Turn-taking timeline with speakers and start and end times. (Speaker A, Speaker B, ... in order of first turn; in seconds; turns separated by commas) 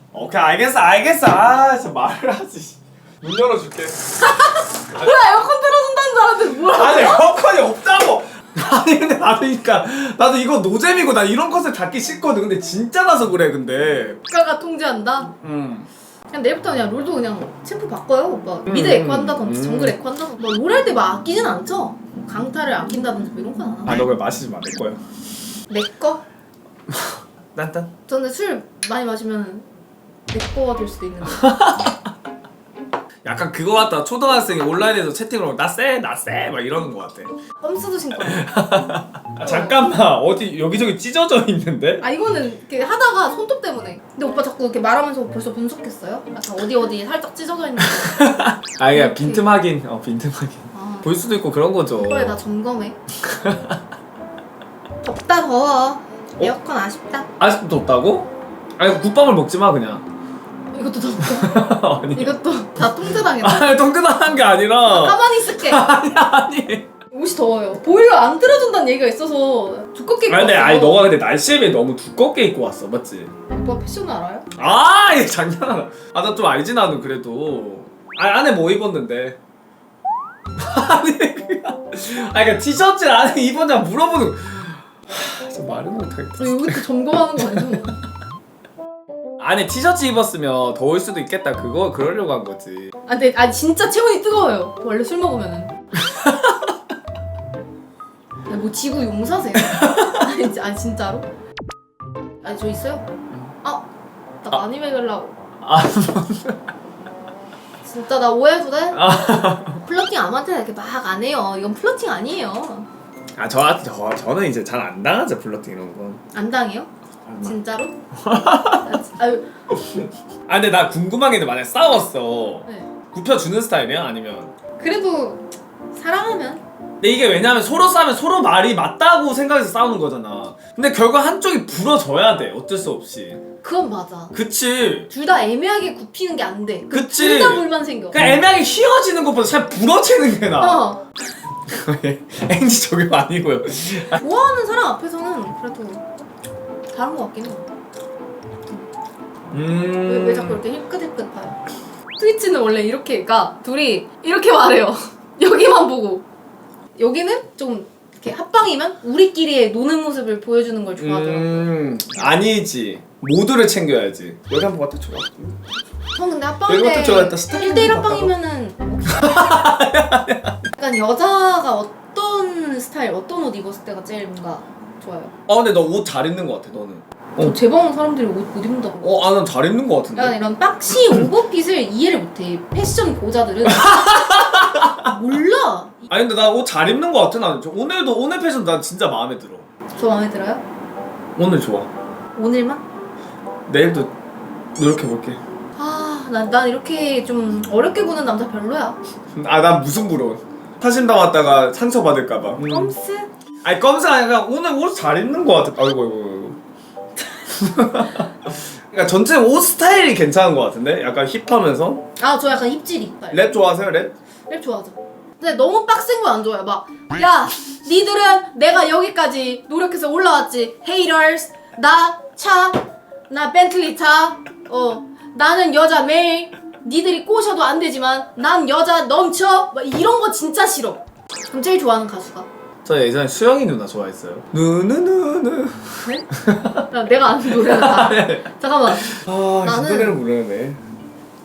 Speaker A: 0.1-5.1, Speaker B: 4.2-7.3, Speaker A: 6.7-14.2, Speaker B: 14.3-15.3, Speaker A: 15.4-15.9, Speaker B: 16.3-24.0, Speaker A: 18.6-20.0, Speaker A: 23.9-25.0, Speaker B: 25.7-26.2, Speaker A: 26.9-27.9, Speaker B: 28.1-29.7, Speaker B: 30.3-31.5, Speaker A: 31.2-31.9, Speaker A: 33.2-37.3, Speaker B: 37.6-38.5, Speaker A: 38.1-42.0, Speaker B: 39.4-39.8, Speaker B: 42.0-48.3, Speaker A: 47.8-52.4, Speaker B: 48.9-49.5, Speaker B: 50.7-51.1, Speaker B: 51.9-53.0, Speaker A: 53.2-53.8, Speaker B: 55.0-57.3, Speaker A: 57.4-60.0, Speaker B: 60.7-63.9, Speaker A: 61.2-62.4, Speaker A: 63.2-66.9, Speaker B: 64.8-65.9, Speaker B: 67.1-71.1, Speaker A: 70.3-73.3, Speaker B: 73.5-74.5, Speaker A: 74.5-79.4, Speaker A: 80.6-87.9, Speaker B: 86.4-88.0, Speaker A: 89.4-92.9, Speaker B: 93.1-95.7, Speaker A: 96.0-96.7, Speaker B: 98.5-101.2, Speaker A: 99.5-100.3, Speaker B: 102.4-103.8, Speaker B: 104.4-105.3, Speaker A: 105.6-106.6, Speaker B: 107.8-109.0, Speaker A: 108.9-109.8, Speaker B: 109.8-112.9, Speaker A: 113.4-116.2, Speaker B: 116.3-116.9, Speaker A: 117.2-117.5, Speaker B: 117.4-117.9, Speaker A: 118.2-119.0, Speaker B: 118.7-119.5, Speaker A: 119.9-124.5, Speaker B: 124.8-126.6, Speaker A: 127.0-133.4, Speaker B: 133.6-134.3, Speaker A: 134.3-135.1, Speaker B: 135.1-138.2, Speaker A: 136.9-140.9, Speaker B: 140.6-141.0, Speaker A: 141.7-144.2, Speaker B: 144.1-146.0, Speaker B: 146.9-147.7, Speaker A: 149.5-150.6, Speaker B: 150.0-151.6, Speaker B: 152.2-156.2, Speaker B: 156.9-162.3, Speaker A: 161.0-165.7, Speaker B: 166.1-169.7, Speaker A: 166.7-168.3, Speaker A: 169.1-170.7, Speaker B: 170.8-175.3, Speaker A: 175.5-177.6, Speaker B: 177.4-179.2, Speaker A: 179.0-180.3, Speaker B: 180.1-186.1, Speaker A: 183.6-185.1, Speaker A: 186.1-189.7, Speaker B: 189.9-190.6, Speaker A: 191.3-191.9, Speaker B: 192.3-192.8, Speaker A: 193.7-194.1, Speaker A: 194.8-195.4, Speaker B: 195.8-199.0, Speaker A: 199.3-202.9, Speaker B: 202.7-203.3, Speaker A: 203.6-206.6, Speaker A: 207.4-212.0, Speaker B: 212.2-213.5, Speaker A: 213.3-214.1, Speaker B: 214.5-232.5, Speaker A: 232.8-236.8, Speaker B: 236.0-236.3, Speaker B: 236.8-240.2, Speaker A: 237.5-240.8